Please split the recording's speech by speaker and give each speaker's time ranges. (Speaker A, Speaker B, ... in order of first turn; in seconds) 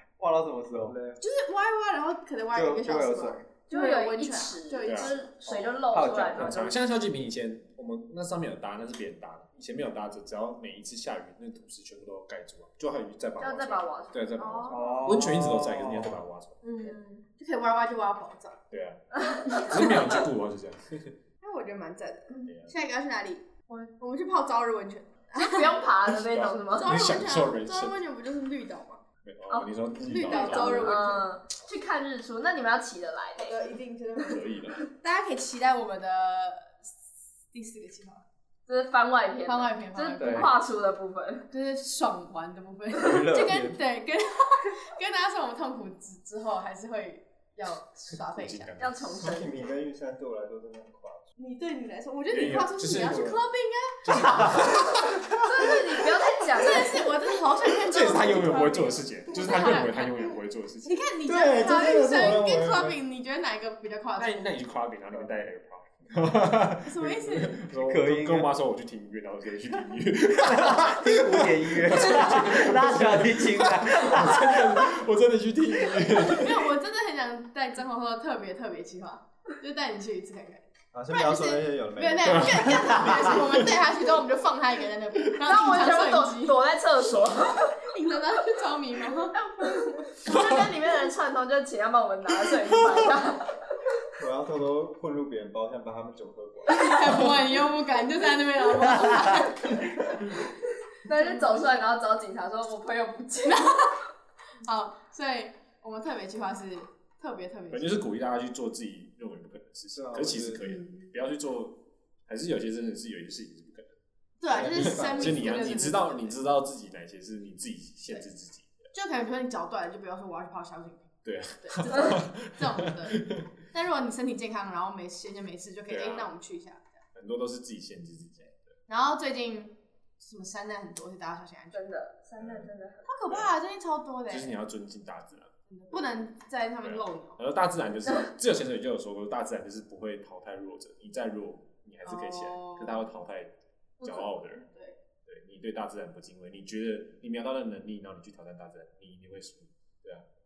Speaker A: 0.2-1.1, 2.5-3.5, 5.5-6.7, 14.7-16.2, 40.2-40.5, 42.9-43.8, 67.7-68.5, 70.3-74.7
Speaker B: 0.8-1.2, 49.2-51.3, 61.2-63.0, 80.9-83.1, 94.2-97.2, 109.9-110.6
Speaker C: 1.2-5.3, 16.6-18.6, 21.4-25.8, 26.8-29.0, 30.0-31.3, 33.4-34.4, 35.0-36.9, 37.5-38.2, 39.5-40.5, 41.5-48.7, 51.4-60.2, 60.8-64.5, 66.8-67.6, 75.9-86.5, 87.8-90.5, 96.7-100.1, 101.2-101.6, 103.5-103.9, 104.6-108.0, 110.6-111.1, 114.4-116.4, 118.9-121.1, 121.6-126.9, 128.9-131.8, 133.1-134.6, 135.7-137.4, 142.0-143.0, 144.0-145.0
Speaker D: 3.7-6.8, 13.4-14.9, 16.7-17.2, 19.1-20.1, 25.3-27.0, 30.3-33.6, 38.7-41.5, 48.8-49.6, 55.4-57.0, 85.4-87.8, 89.4-93.5, 101.0-103.8, 131.7-133.3
Speaker E: 4.8-5.2, 6.2-16.6, 18.7-21.1, 22.4-22.7, 26.2-28.0, 29.2-31.0, 34.2-34.8, 48.3-49.2, 52.3-53.4, 54.0-55.3, 57.8-61.0, 64.2-76.7, 82.2-83.8, 107.7-113.9, 114.5-118.9, 121.2-123.5, 125.9-126.3, 127.1-128.7, 132.4-132.7, 133.3-133.5, 134.3-135.5, 136.8-144.6, 145.2-150.2